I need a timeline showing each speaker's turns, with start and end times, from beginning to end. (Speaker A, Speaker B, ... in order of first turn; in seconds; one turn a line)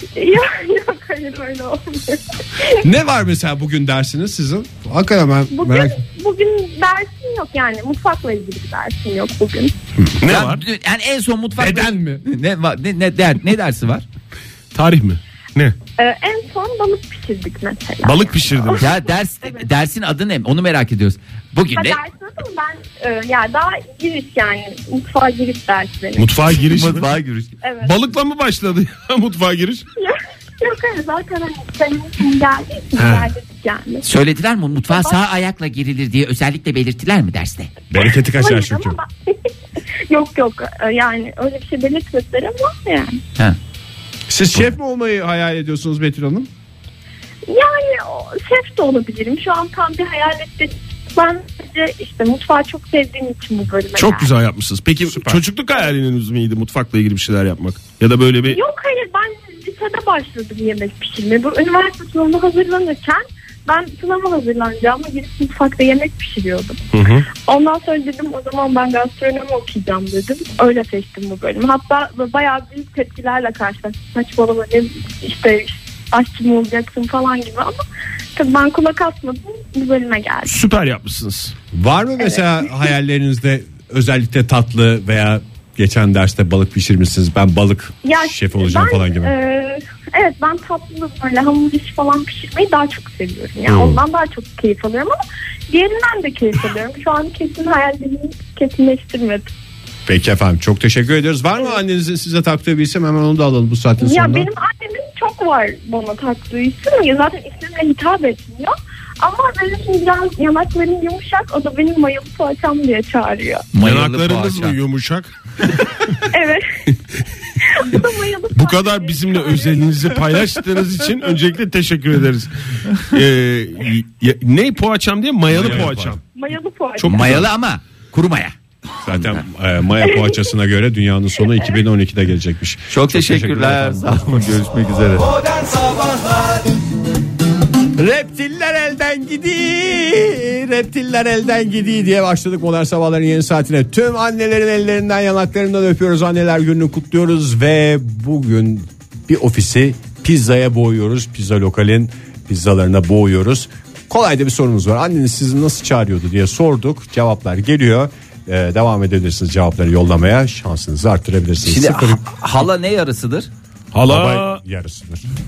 Speaker A: 0.2-2.8
Speaker B: 2.8-6.0
Speaker A: 5.5-9.7
Speaker C: 10.1-10.6
Speaker D: 10.3-14.1
Speaker B: 11.6-12.2
Speaker C: 14.7-15.8
Speaker A: 16.0-19.7
Speaker C: 18.0-18.9
Speaker D: 18.8-22.0
Speaker A: 21.8-26.4
Speaker C: 26.2-27.1
Speaker D: 26.7-27.5
Speaker A: 27.6-27.9
Speaker C: 27.8-29.9
Speaker A: 30.0-34.0
Speaker C: 33.0-33.3
Speaker D: 34.0-37.8
Speaker A: 34.9-35.2
Speaker B: 37.9-39.0
Speaker A: 38.3-39.5
Speaker A: 40.1-43.2
Speaker B: 44.3-46.5
Speaker A: 47.5-54.3
Speaker C: 54.0-58.6
Speaker B: 55.0-55.4
Speaker A: 58.5-66.8
Speaker C: 66.9-67.3
Speaker A: 67.5-77.8
Speaker A: 78.4-80.5
Speaker C: 80.5-81.5
Speaker B: 81.7-89.3
Speaker A: 88.0-95.2
Speaker B: 93.7-94.0
Speaker A: 95.7-99.5
Speaker B: 100.1-104.5
Speaker A: 104.0-113.7
Speaker D: 113.7-114.8
Speaker C: 113.8-115.3
Speaker A: 116.3-116.7
Speaker A: 117.6-119.9
Speaker C: 118.5-126.2
Speaker B: 125.5-126.2
Speaker D: 125.6-125.9
Speaker A: 126.3-127.4
Speaker C: 127.0-127.5
Speaker D: 127.0-128.5
Speaker B: 129.0-134.6
Speaker D: 132.9-135.3
Speaker B: 135.9-136.5
Speaker B: 138.0-162.2
Speaker D: 161.7-163.5
Speaker C: 163.9-164.6
Speaker B: 164.1-165.2